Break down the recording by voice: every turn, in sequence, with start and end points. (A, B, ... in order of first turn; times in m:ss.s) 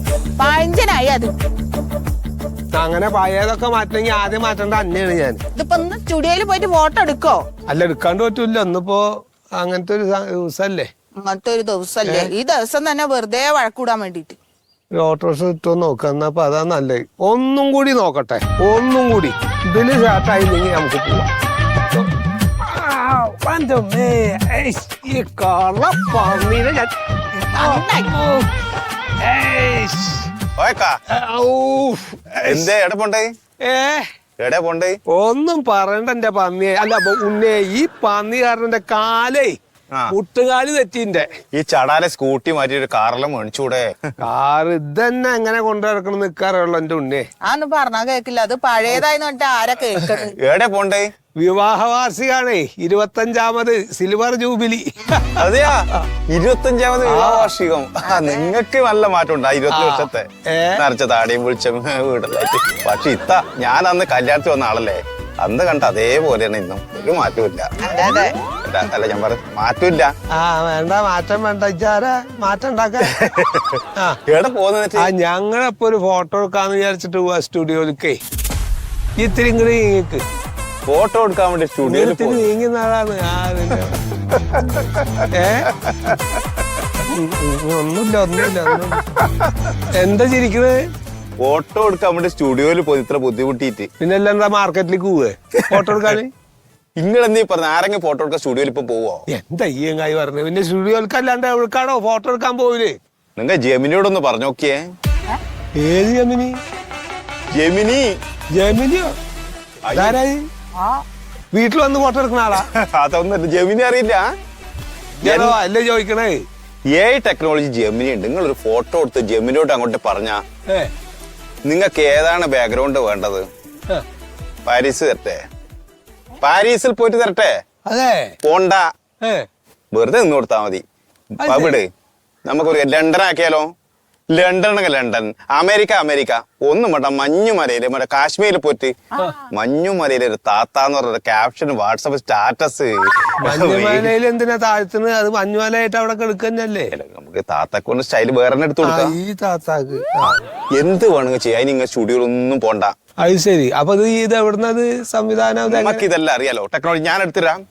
0:00.4-0:01.3 A
0:02.7-0:05.4 B
0:05.5-0:07.4 A
0:07.7-0:10.9 B
0:11.2-0:14.4 A
0:14.9-0:21.3 B
0:21.9-0:28.5 B
0:27.5-0:28.1 A
0:29.2-0:30.3 B
0:30.6-0:31.0 C
0:31.1-0:32.7 B
0:32.4-0:33.3 C
0:33.6-0:34.1 B
0:34.4-0:35.0 C
0:35.1-0:39.6 B
0:40.1-0:41.3 B
0:41.5-0:44.1 C
0:44.2-0:47.3 B
0:47.4-0:50.3 A
0:50.4-0:51.1 C
0:51.4-0:55.4 B
0:55.4-1:00.2 C
0:57.1-0:57.5 B
0:58.0-0:58.5 A
0:59.7-1:00.8 B
1:00.8-1:10.1 C
1:07.8-1:08.3 A
1:10.3-1:13.1 B
1:13.1-1:15.1 C
1:15.0-1:18.2 B
1:19.2-1:20.2 B
1:20.9-1:22.5 C
1:21.8-1:24.0 B
1:25.0-1:25.2 C
1:25.3-1:25.7 B
1:25.9-1:26.2 C
1:27.1-1:29.0 B
1:29.9-1:30.8 B
1:31.4-1:33.9 C
1:34.0-1:36.3 B
1:37.0-1:39.2 C
1:39.3-1:43.0 B
1:43.4-1:44.8 C
1:45.8-1:46.6 B
1:47.5-1:48.1 C
1:48.5-1:49.1 B
1:49.8-1:50.2 C
1:49.9-1:50.5 B
1:50.8-1:51.0 A
1:51.5-1:52.7 B
1:52.7-1:54.3 C
1:55.2-1:56.4 B
1:55.2-1:55.5 C
1:56.9-2:00.4 C
2:01.7-2:03.5 C
2:04.6-2:05.4 C
2:06.4-2:07.6 C
2:07.8-2:08.4 B
2:08.4-2:08.8 C
2:09.2-2:09.5 B
2:09.9-2:10.8 C
2:11.4-2:11.8 B
2:11.4-2:11.9 C
2:12.4-2:13.7 C
2:14.3-2:18.9 C
2:19.5-2:24.1 C
2:23.4-2:26.9 B
2:26.9-2:29.1 C
2:28.8-2:30.4 B
2:30.2-2:32.9 C
2:33.2-2:36.1 B
2:35.7-2:37.6 C